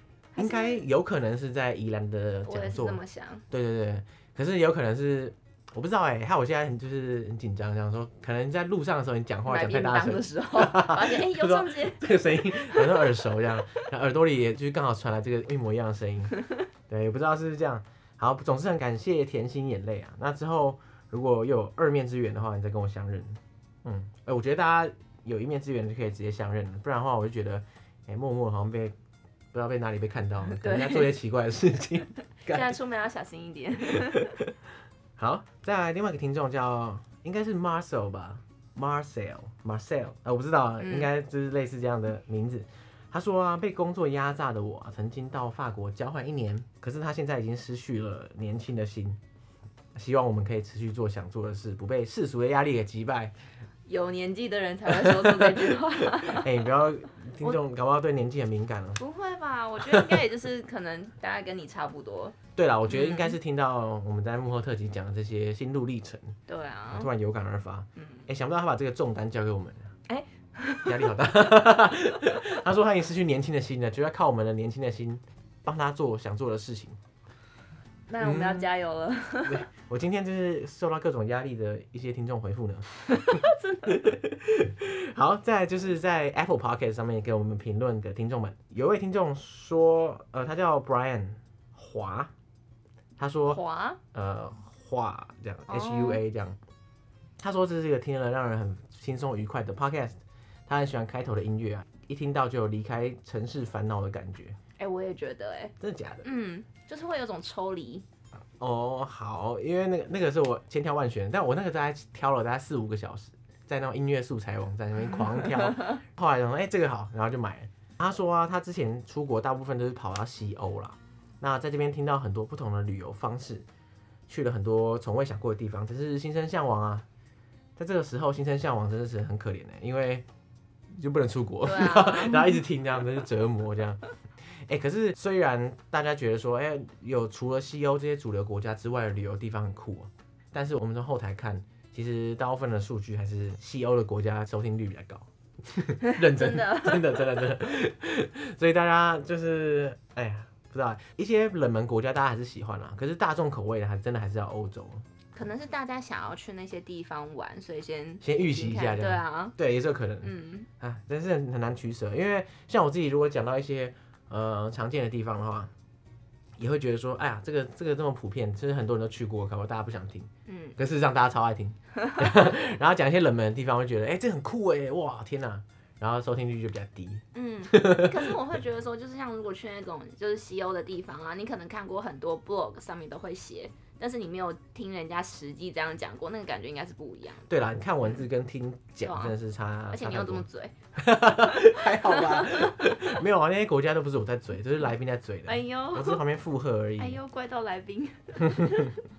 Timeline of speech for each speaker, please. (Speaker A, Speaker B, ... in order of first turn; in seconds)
Speaker A: 0.3-0.8, 2.5-3.5, 9.5-13.3, 30.5-31.1, 32.5-34.4, 40.8-41.1, 53.9-56.7, 59.0-62.4, 62.9-63.4, 66.5-67.1, 68.0-68.2, 70.1-71.3, 78.1-79.7, 83.1-84.2, 93.5-94.0, 95.7-96.2, 104.8-108.0, 115.2-116.0, 131.6-132.6, 146.0-147.5, 155.3-159.6, 160.2-160.7, 170.5-170.8, 172.0-172.5, 177.3-187.5, 189.0-189.4, 189.9-190.7, 191.3-193.2, 195.5-196.2, 197.0-199.0
Speaker B: 0.4-28.9, 29.5-32.7, 33.9-34.5, 35.2-49.2, 50.0-53.3, 54.9-59.0, 59.8-60.2, 62.6-66.4, 66.9-69.9, 70.8-77.0, 78.2-78.7, 79.5-92.3, 93.2-93.6, 94.1-96.6, 97.4-104.6, 105.8-106.3, 108.6-123.7, 124.3-127.1, 127.8-130.2, 131.0-134.0, 134.7-155.1, 158.2-165.7, 166.6-178.3, 187.5-190.4, 191.0-197.2, 198.5-198.9